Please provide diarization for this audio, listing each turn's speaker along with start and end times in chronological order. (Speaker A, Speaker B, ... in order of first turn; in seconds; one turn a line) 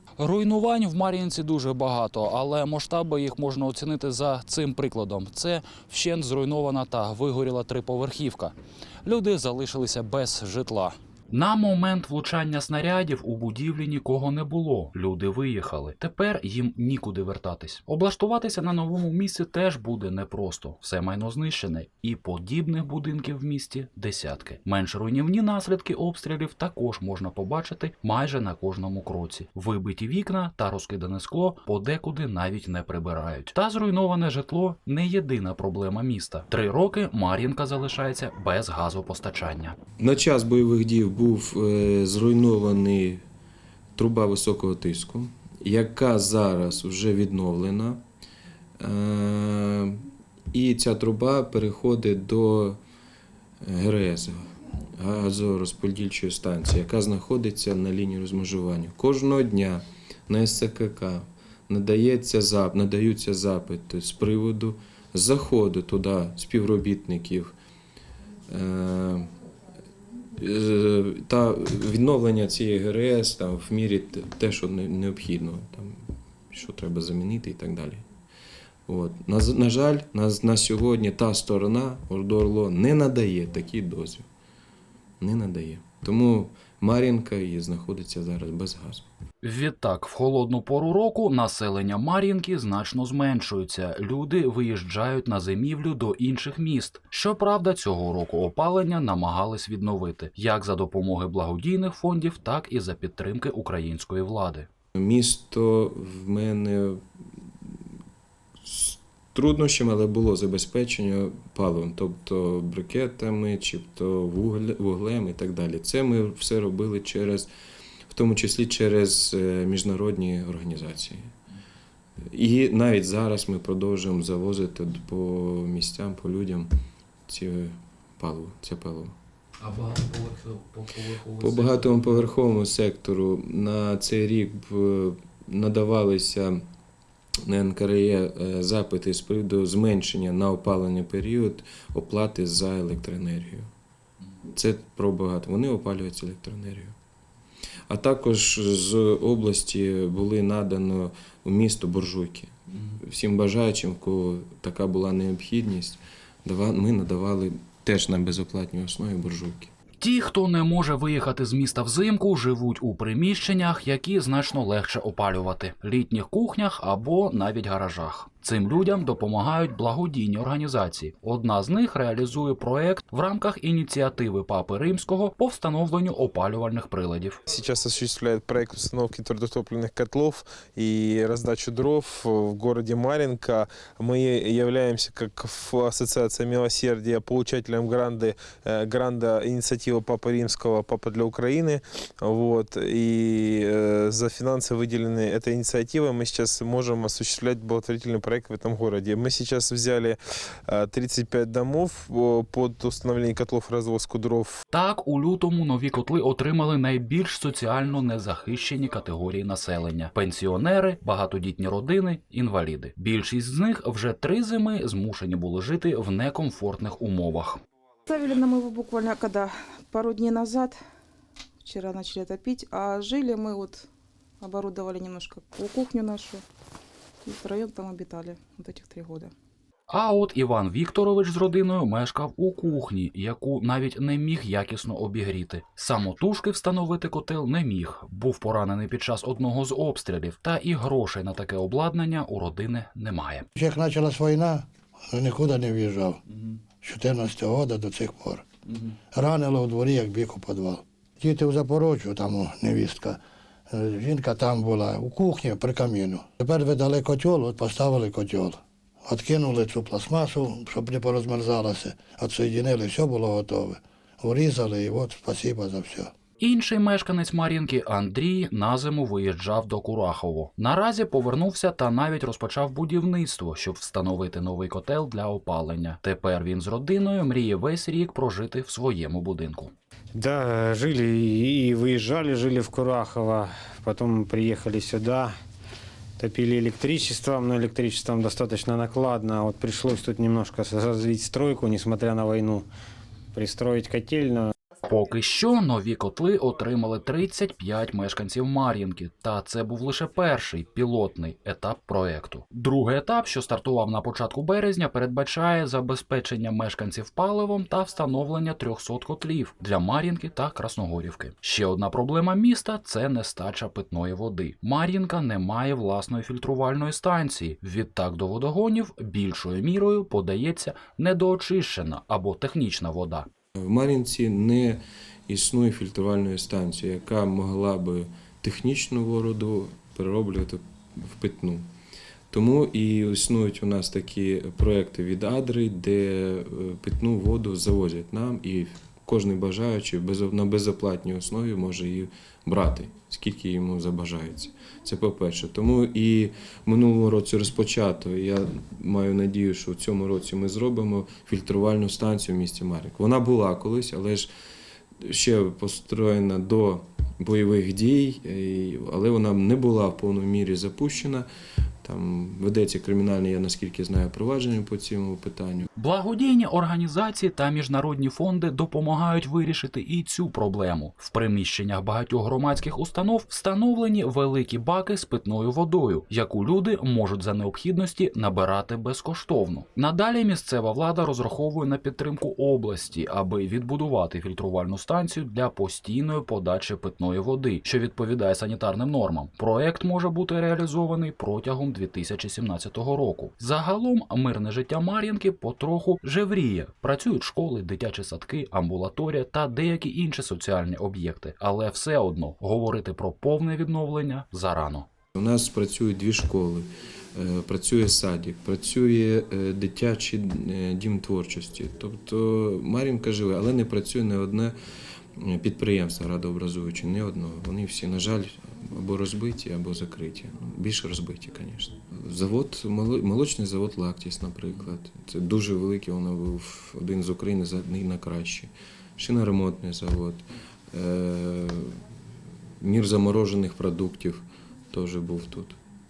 Speaker A: 0.2-39.8
Speaker B: 40.0-43.2
Speaker B: 43.9-48.0
Speaker B: 48.8-52.8
Speaker B: 53.6-67.5
Speaker B: 68.5-69.3
Speaker B: 70.4-78.1
Speaker B: 78.9-84.3
Speaker B: 85.2-89.1
Speaker A: 89.4-104.7
Speaker B: 104.9-107.0
Speaker B: 107.6-107.9
Speaker B: 108.6-117.5
Speaker B: 118.1-121.3
Speaker B: 122.2-126.7
Speaker B: 127.3-129.2
Speaker A: 129.6-132.2
Speaker B: 131.4-136.6
Speaker B: 137.4-143.7
Speaker B: 144.4-146.9
Speaker B: 147.9-159.7
Speaker A: 160.0-177.4
Speaker C: 177.5-204.6
Speaker A: 204.7-217.6
Speaker D: 218.1-220.8
Speaker D: 221.6-223.9
Speaker D: 224.4-226.4
Speaker D: 227.2-229.3
Speaker A: 229.9-243.5
Speaker E: 243.6-246.2
Speaker E: 246.8-248.5
Speaker E: 249.1-266.1
Speaker A: 266.4-279.7
Speaker F: 280.1-285.3
Speaker F: 286.2-292.7
Speaker F: 293.3-294.5
Speaker A: 294.8-323.3
Speaker B: 323.6-331.7
Speaker B: 332.3-354.3
Speaker B: 355.0-361.3
Speaker B: 361.8-365.6
Speaker A: 365.8-404.9
Speaker B: 405.1-414.6
Speaker B: 415.1-431.8
Speaker B: 432.6-435.6